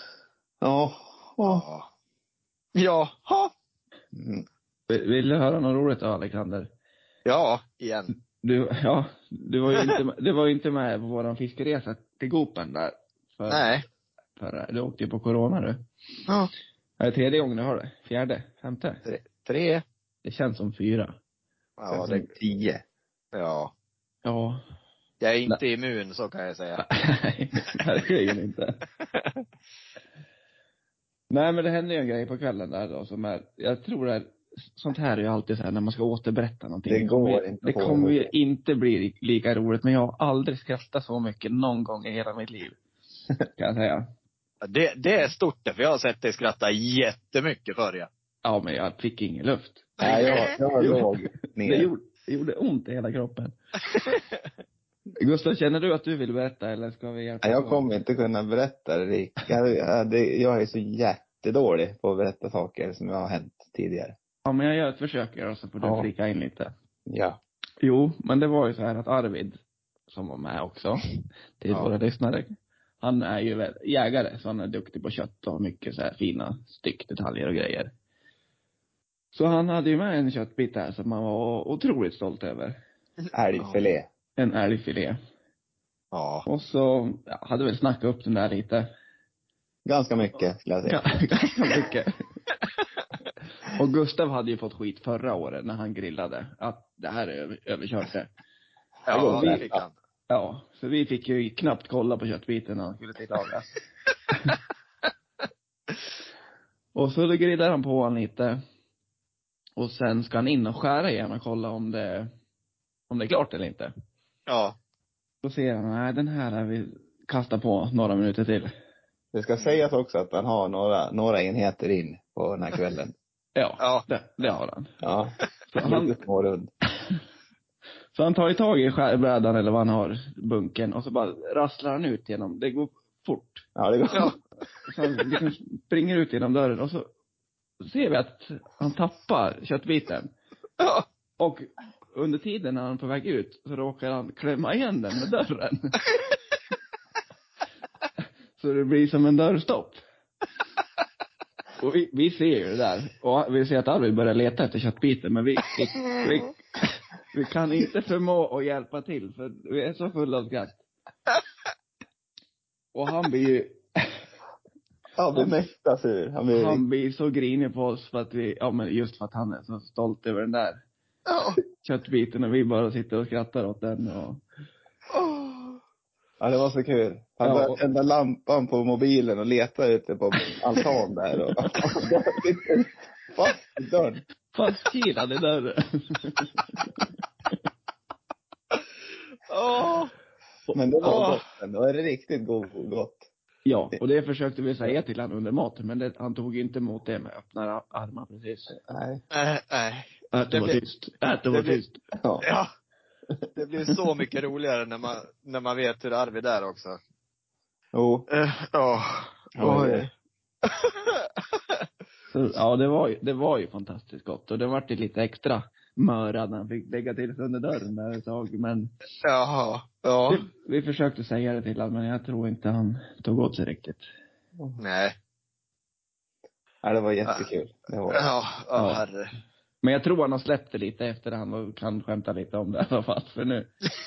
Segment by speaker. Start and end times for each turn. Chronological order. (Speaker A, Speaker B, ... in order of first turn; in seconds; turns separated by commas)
Speaker A: 0.6-1.6, Speaker B: 1.4-1.9, Speaker B: 2.8-3.5, Speaker A: 4.1-4.5, Speaker C: 4.9-6.7, Speaker B: 7.2-8.1, Speaker C: 8.4-13.7, Speaker B: 13.5-13.8, Speaker C: 14.4-15.8, Speaker C: 17.0-19.0, Speaker B: 19.0-19.8, Speaker C: 20.2-21.1, Speaker B: 21.8-22.3, Speaker A: 21.9-22.8, Speaker B: 23.3-23.7, Speaker C: 24.2-24.6, Speaker B: 25.2-26.8, Speaker C: 26.8-28.8, Speaker B: 29.1-29.4, Speaker C: 31.3-42.8, Speaker A: 36.9-38.3, Speaker C: 43.5-44.1, Speaker B: 44.6-48.1, Speaker C: 48.4-50.0, Speaker A: 50.0-51.9, Speaker B: 50.0-50.5, Speaker C: 50.8-51.1, Speaker C: 51.6-53.5, Speaker C: 55.2-57.9, Speaker A: 57.4-64.1, Speaker C: 64.4-66.7, Speaker A: 65.8-66.1, Speaker A: 67.1-67.4, Speaker C: 67.8-71.0, Speaker C: 71.6-77.9, Speaker C: 79.3-82.8, Speaker A: 83.3-84.1, Speaker B: 83.6-83.9, Speaker C: 84.4-85.2, Speaker B: 86.1-86.5, Speaker C: 86.5-88.9, Speaker A: 89.8-91.1, Speaker C: 90.9-92.2, Speaker C: 93.7-98.3, Speaker B: 99.1-99.9, Speaker C: 99.1-99.6, Speaker A: 99.3-99.6, Speaker C: 100.3-103.8, Speaker C: 106.9-108.6, Speaker C: 109.8-112.3, Speaker C: 113.1-113.9, Speaker B: 114.5-114.8, Speaker C: 115.4-118.7, Speaker A: 119.3-123.1, Speaker C: 123.5-124.9, Speaker B: 123.8-124.6, Speaker A: 125.0-126.7, Speaker C: 125.7-126.2, Speaker C: 128.1-133.7, Speaker A: 133.8-134.3, Speaker C: 134.8-137.1, Speaker C: 137.8-140.3, Speaker B: 140.8-141.0, Speaker C: 141.4-146.0, Speaker C: 148.6-150.0, Speaker C: 151.8-160.8, Speaker C: 162.9-164.2, Speaker A: 165.2-166.8, Speaker C: 166.5-170.8, Speaker B: 171.3-171.6, Speaker C: 171.8-174.4, Speaker B: 175.1-175.8, Speaker A: 176.4-184.2, Speaker C: 177.4-177.8, Speaker C: 184.5-186.7, Speaker B: 189.5-190.1, Speaker C: 190.7-191.2, Speaker A: 190.7-193.2, Speaker B: 191.0-191.4, Speaker C: 193.7-198.8, Speaker A: 198.9-199.2, Speaker B: 199.3-200.8, Speaker C: 200.3-202.0, Speaker B: 201.5-201.8, Speaker A: 202.2-202.4, Speaker B: 202.4-202.7, Speaker B: 203.6-207.0, Speaker A: 207.9-208.2, Speaker B: 208.3-210.1, Speaker A: 209.6-210.1, Speaker B: 210.6-211.8, Speaker C: 212.3-218.9, Speaker B: 219.2-220.4, Speaker C: 220.3-224.0, Speaker B: 224.8-225.1, Speaker A: 226.8-228.3, Speaker B: 228.1-229.3, Speaker C: 228.8-229.0, Speaker C: 229.8-233.8